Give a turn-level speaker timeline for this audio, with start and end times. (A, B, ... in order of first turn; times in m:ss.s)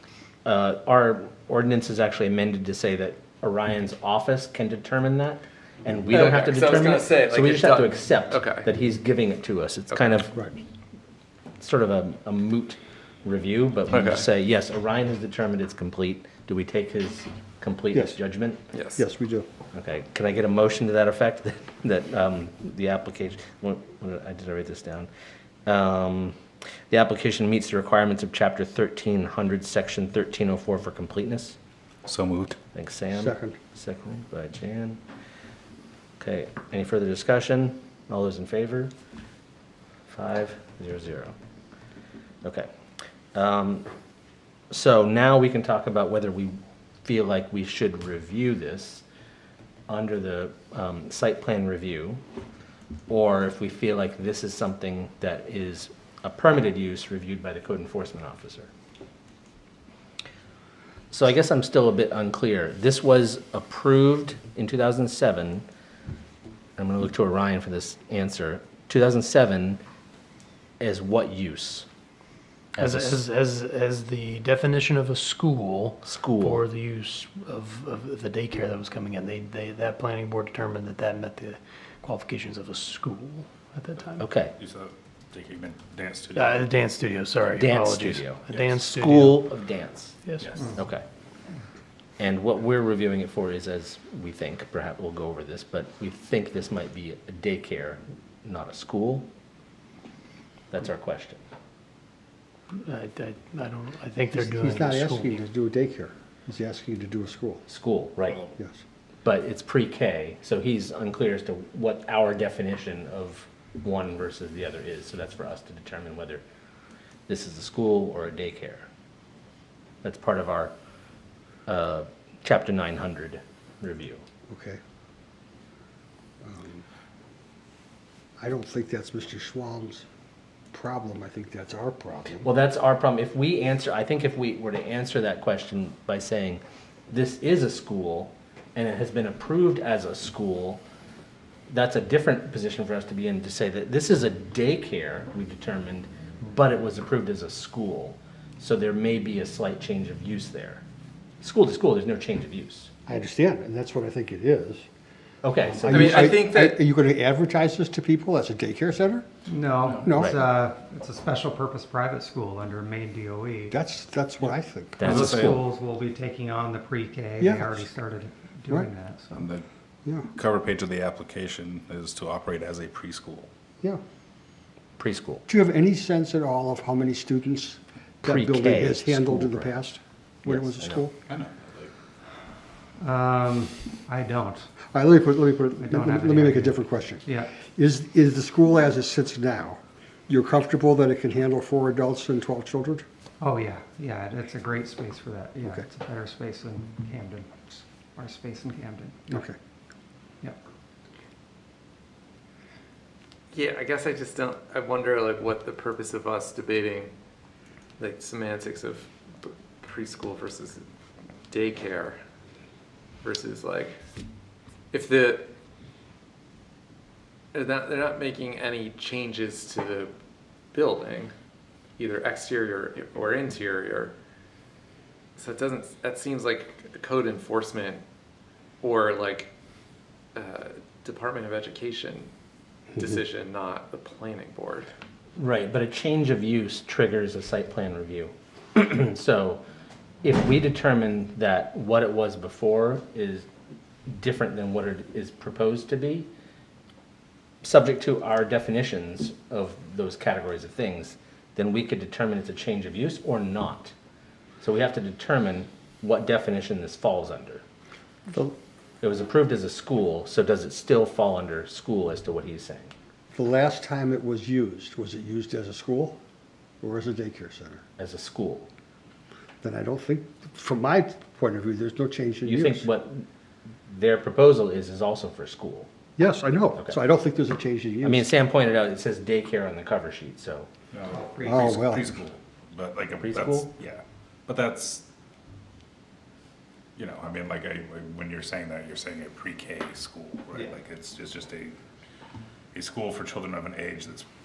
0:00.4-0:10.3 A
0:06.1-0:08.7 B
0:11.6-0:18.6 A
0:13.9-0:14.2 B
0:17.9-0:18.2 C
0:18.7-0:19.0 B
0:19.0-0:19.5 C
0:19.7-0:25.1 A
0:25.7-0:26.4 A
0:26.9-0:31.6 A
0:32.1-0:32.6 D
0:32.7-0:35.0 A
0:33.2-0:33.6 C
0:36.2-0:38.9 A
0:40.1-0:41.3 A
0:42.4-0:42.7 A
0:43.3-0:43.9 A
0:44.7-0:49.0 A
0:49.9-0:52.2 A
0:53.1-0:58.7 A
1:01.1-1:05.6 A
1:06.8-1:09.8 A
1:10.8-1:11.9 A
1:12.8-1:13.2 A
1:12.8-1:24.3 E
1:16.0-1:16.6 A
1:24.2-1:24.6 A
1:24.6-1:26.8 D
1:26.4-1:29.5 E
1:27.5-1:31.0 A
1:30.2-1:30.5 E
1:30.4-1:30.8 D
1:32.2-1:39.3 A
1:40.7-1:41.4 A
1:42.7-1:45.4 E
1:44.4-1:47.6 C
1:47.7-1:48.4 A
1:48.3-1:48.5 D
1:49.2-1:56.4 A
1:57.3-1:58.9 A
2:00.0-2:00.7 A
2:01.7-2:04.2 A
2:04.5-2:04.8 C
2:06.4-2:06.8 C
2:08.4-2:10.0 C
2:10.7-2:12.5 C
2:12.4-2:20.8 A
2:21.7-2:30.8 A
2:31.4-2:32.9 A
2:33.1-2:34.8 C
2:35.4-2:36.3 A
2:35.7-2:39.3 C
2:35.9-2:36.8 B
2:39.5-2:43.8 F
2:40.0-2:40.4 C
2:40.2-2:40.4 A
2:43.7-2:45.3 C
2:45.0-2:45.5 A
2:45.0-2:49.5 F
2:45.2-2:45.6 D
2:47.4-2:47.8 C
2:49.3-2:49.6 D
2:50.4-2:53.5 D
2:55.0-2:55.4 A
2:55.5-3:01.1 C
2:58.2-2:59.8 A
3:00.5-3:01.1 A
3:01.3-3:01.9 D
3:03.0-3:04.7 F
3:04.9-3:13.0 C
3:05.8-3:07.6 F
3:13.4-3:19.3 F
3:15.6-3:15.9 C
3:19.3-3:19.6 C
3:23.5-3:27.1 B
3:28.0-3:30.8 B
3:31.5-3:32.2 B
3:33.2-3:34.0 B
3:34.9-3:35.5 B
3:37.5-3:40.1 B
3:40.7-3:41.3 B
3:42.0-3:44.2 B
3:45.4-3:48.0 B
3:48.8-3:49.5 B
3:50.4-3:52.3 B
3:53.0-3:54.9 B
3:55.4-3:59.6 A
4:00.2-4:03.5 A
4:04.1-4:06.3 A
4:07.6-4:13.9 A
4:14.6-4:17.6 A
4:19.0-4:22.9 A
4:23.3-4:26.2 C
4:26.8-4:27.8 C
4:28.0-4:28.7 A
4:29.6-4:32.9 C
4:32.4-4:33.3 A
4:33.9-4:35.9 A
4:36.2-4:38.3 C
4:38.0-4:40.7 A
4:40.9-4:45.1 D
4:41.3-4:41.7 F
4:41.4-4:42.1 C
4:43.2-4:43.7 A
4:47.0-4:51.8 D
4:52.7-4:54.3 D